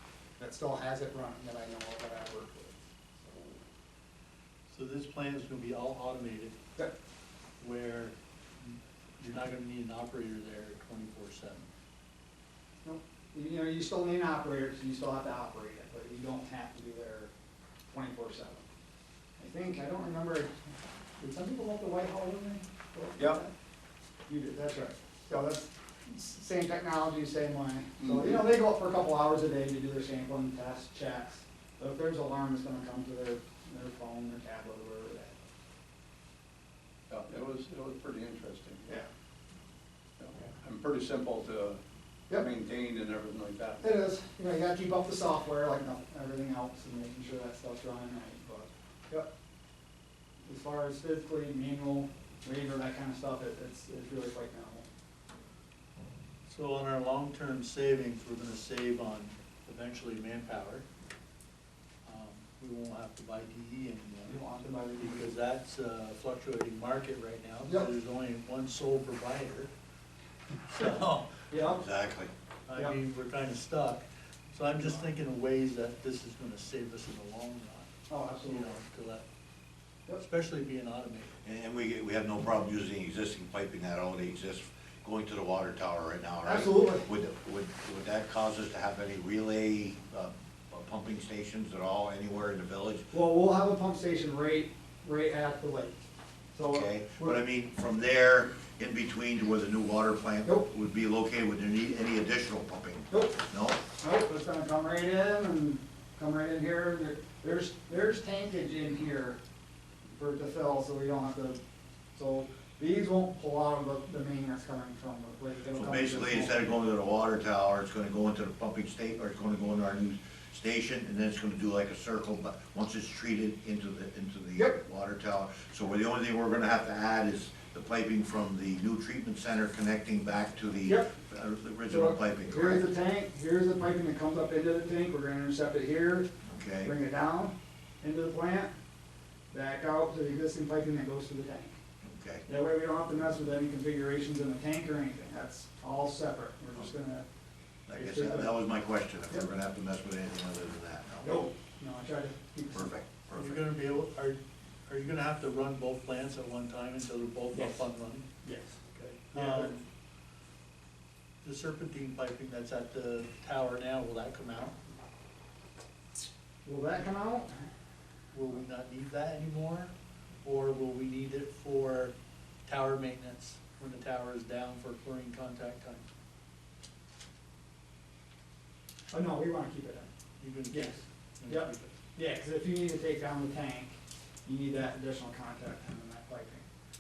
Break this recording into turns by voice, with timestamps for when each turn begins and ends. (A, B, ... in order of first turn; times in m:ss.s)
0:00.4-0:03.5 A
0:04.7-0:06.6 B
0:07.6-0:11.7 B
0:12.8-0:17.3 A
0:17.9-0:18.6 A
0:19.4-0:20.5 A
0:21.2-0:23.5 A
0:24.3-0:35.4 A
0:28.0-0:28.4 C
0:37.1-0:38.9 C
0:40.2-0:41.8 C
0:42.3-0:43.9 C
0:43.8-0:49.3 A
0:50.4-0:54.8 A
0:56.5-1:00.8 B
1:02.0-1:04.4 B
1:04.3-1:05.3 A
1:05.0-1:09.7 B
1:07.6-1:07.9 A
1:10.7-1:11.4 B
1:11.5-1:11.8 A
1:11.6-1:12.3 D
1:12.7-1:17.9 B
1:18.1-1:18.7 A
1:18.4-1:19.2 B
1:20.2-1:21.4 B
1:21.4-1:33.1 D
1:26.4-1:27.1 A
1:33.1-1:36.0 A
1:36.5-1:37.4 A
1:36.7-1:43.8 D
1:43.1-1:43.4 A
1:44.0-1:49.4 A
1:50.1-1:51.6 A
1:52.2-1:56.7 A
1:55.8-2:12.8 D
2:10.8-2:11.2 A
2:11.9-2:16.3 A
2:16.5-2:16.9 D
2:16.8-2:18.7 A
2:19.5-2:21.8 A
2:22.0-2:22.4 D
2:22.5-2:27.3 A
2:27.9-2:31.5 D
2:28.0-2:28.5 A
2:31.2-2:33.0 A
2:32.7-2:33.6 D
2:33.3-2:38.3 B
2:37.5-2:37.8 A
2:38.4-2:38.8 A
2:38.9-2:39.9 B
2:39.3-2:39.7 A
2:41.4-2:44.8 B
2:46.6-2:47.6 A
2:48.3-2:49.9 B
2:50.4-2:52.1 B
2:52.7-2:56.1 B
2:59.1-3:00.1 A
3:00.4-3:01.9 B
3:00.7-3:06.7 A